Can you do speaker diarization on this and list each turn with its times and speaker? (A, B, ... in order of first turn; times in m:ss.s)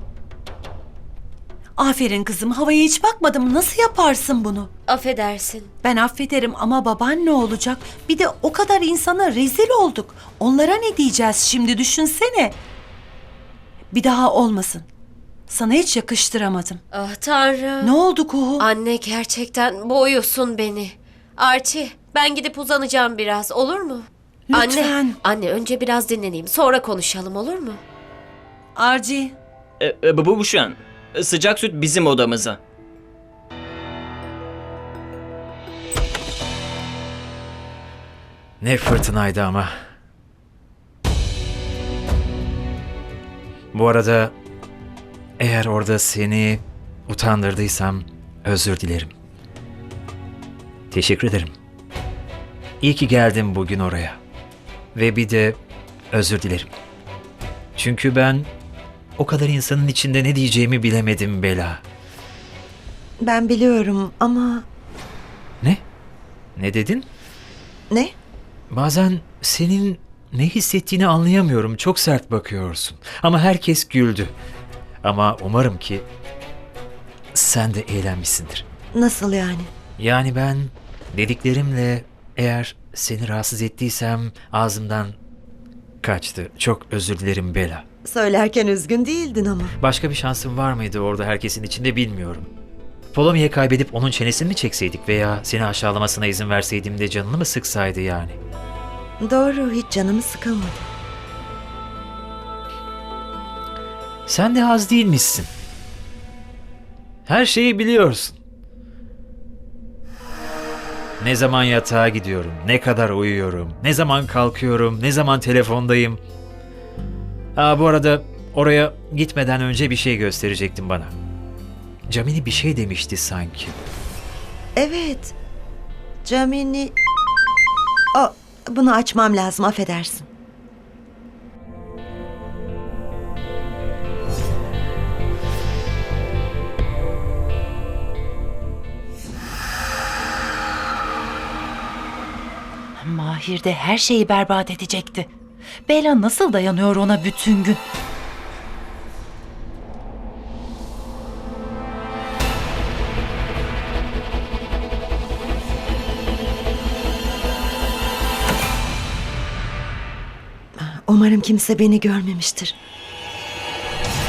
0:01.8-0:04.7 A
0:04.9-0:05.7 B
0:05.8-0:12.6 A
0:13.9-0:14.9 A
0:15.5-0:16.8 A
0:16.9-0:17.9 B
0:18.0-0:18.6 A
0:18.6-0:27.8 B
0:28.8-0:29.4 A
0:29.8-0:32.6 C
0:38.6-0:39.7 D
0:43.7-0:44.3 D
0:45.4-0:49.1 D
0:50.9-0:51.5 D
0:52.8-0:54.2 D
0:55.0-0:55.6 D
0:56.1-0:56.7 D
0:57.8-0:58.5 D
0:59.2-1:01.8 D
1:03.2-1:04.6 E
1:06.6-1:07.1 D
1:08.7-1:14.4 D
1:15.0-1:16.1 D
1:17.4-1:18.6 D
1:18.9-1:19.7 E
1:20.0-1:25.2 D
1:26.0-1:27.8 D
1:28.1-1:29.8 E
1:29.8-1:32.5 D
1:33.1-1:38.4 D
1:39.2-1:40.9 E
1:44.3-1:45.5 D
1:47.3-1:48.4 D
1:51.2-1:56.2 D
1:57.6-2:01.1 D
2:02.1-2:03.8 D
2:04.8-2:05.3 E
2:06.2-2:07.0 E
2:08.2-2:10.3 E
2:23.0-2:25.3 F
2:25.9-2:27.8 F
2:40.8-2:42.8 E